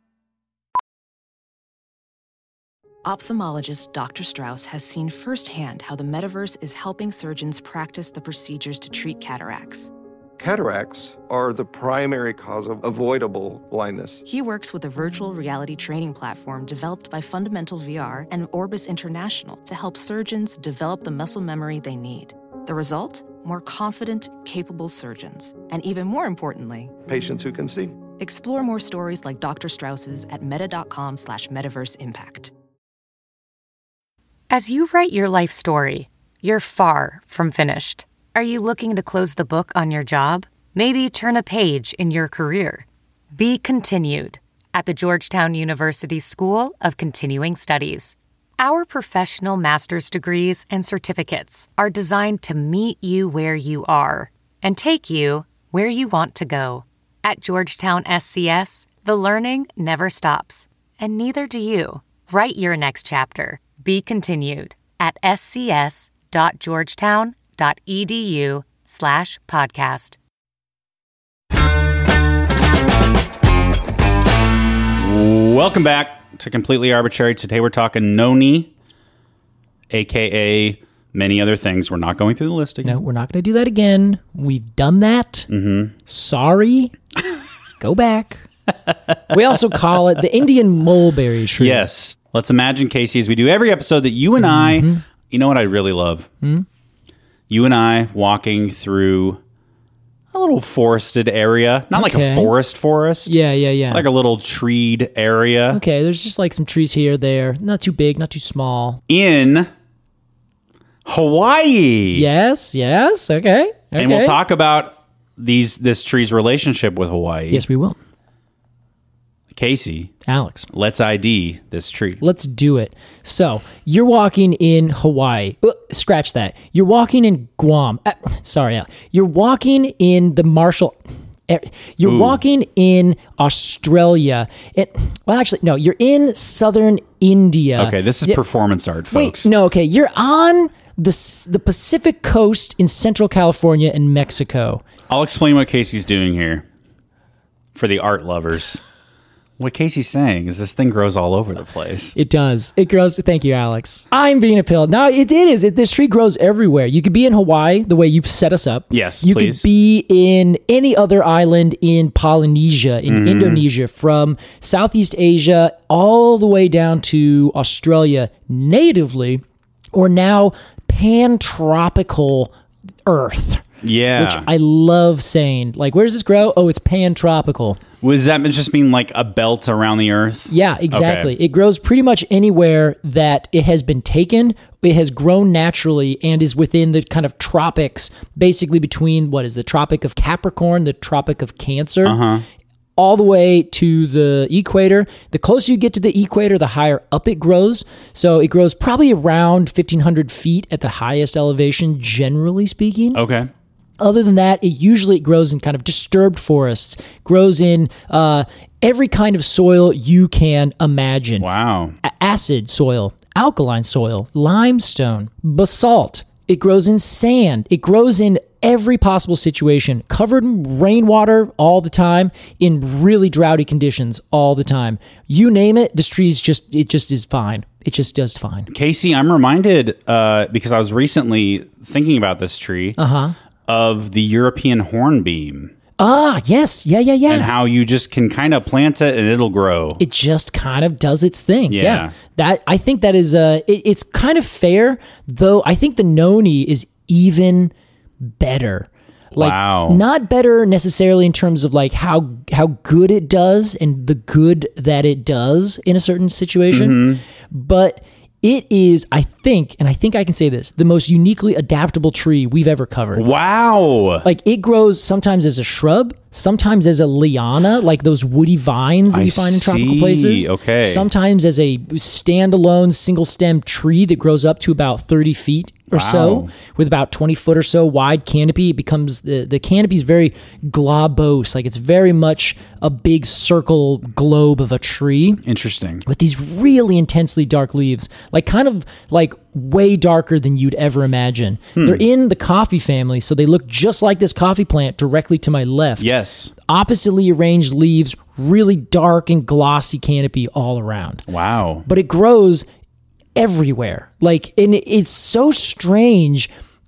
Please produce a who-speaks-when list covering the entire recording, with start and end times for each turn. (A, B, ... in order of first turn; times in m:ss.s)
0:03.0-0:09.9 A
0:10.4-0:14.2 B
0:14.2-0:26.9 A
0:27.0-0:28.0 B
0:28.1-0:32.5 A
0:34.5-1:10.2 C
1:15.0-1:18.7 D
1:19.9-1:23.0 D
1:22.8-1:25.5 E
1:25.5-1:25.9 D
1:26.0-1:26.9 E
1:27.8-1:28.4 E
1:29.3-1:31.9 E
1:31.6-1:36.3 D
1:34.4-1:35.0 E
1:37.5-1:39.4 D
1:40.3-1:43.4 D
1:41.9-1:42.5 E
1:43.2-1:44.0 E
1:43.9-1:45.8 D
1:45.7-1:49.0 E
1:49.1-1:49.7 D
1:51.0-1:52.3 D
1:52.1-1:54.4 E
1:54.0-1:57.6 D
1:57.5-1:58.0 E
1:59.5-2:00.1 D
2:00.2-2:00.7 E
2:00.7-2:02.2 D
2:02.2-2:11.0 E
2:11.5-2:18.4 E
2:12.0-2:12.4 D
2:17.8-2:19.5 D
2:19.1-2:24.8 E
2:25.1-2:26.6 D
2:27.7-2:28.8 D
2:29.6-2:32.1 D
2:32.2-2:52.5 E
2:38.9-2:39.6 D
2:43.1-2:43.6 D
2:53.0-2:57.8 E
2:53.8-2:54.5 D
2:58.0-3:01.3 D
3:00.5-3:12.2 E
3:12.0-3:12.4 D
3:13.0-3:23.2 E
3:23.1-3:23.5 D
3:24.0-3:31.5 E
3:31.4-3:32.0 D
3:32.0-3:48.7 E
3:48.7-3:53.0 D
3:53.0-3:53.3 E
3:53.7-3:55.7 D
3:56.0-3:57.5 E
3:57.3-4:00.0 D
4:00.0-4:07.7 E
4:01.7-4:02.1 D
4:08.2-4:23.2 E
4:09.4-4:10.0 D
4:16.7-4:17.2 D
4:23.1-4:24.2 D
4:24.2-4:45.4 E
4:29.1-4:31.1 D
4:35.9-4:36.5 D
4:45.4-4:46.0 D
4:46.0-4:56.1 E
4:51.8-4:52.0 D
4:56.0-4:56.5 D
4:56.6-5:01.3 E
5:01.3-5:01.8 D
5:01.8-5:02.6 E
5:03.4-5:06.5 E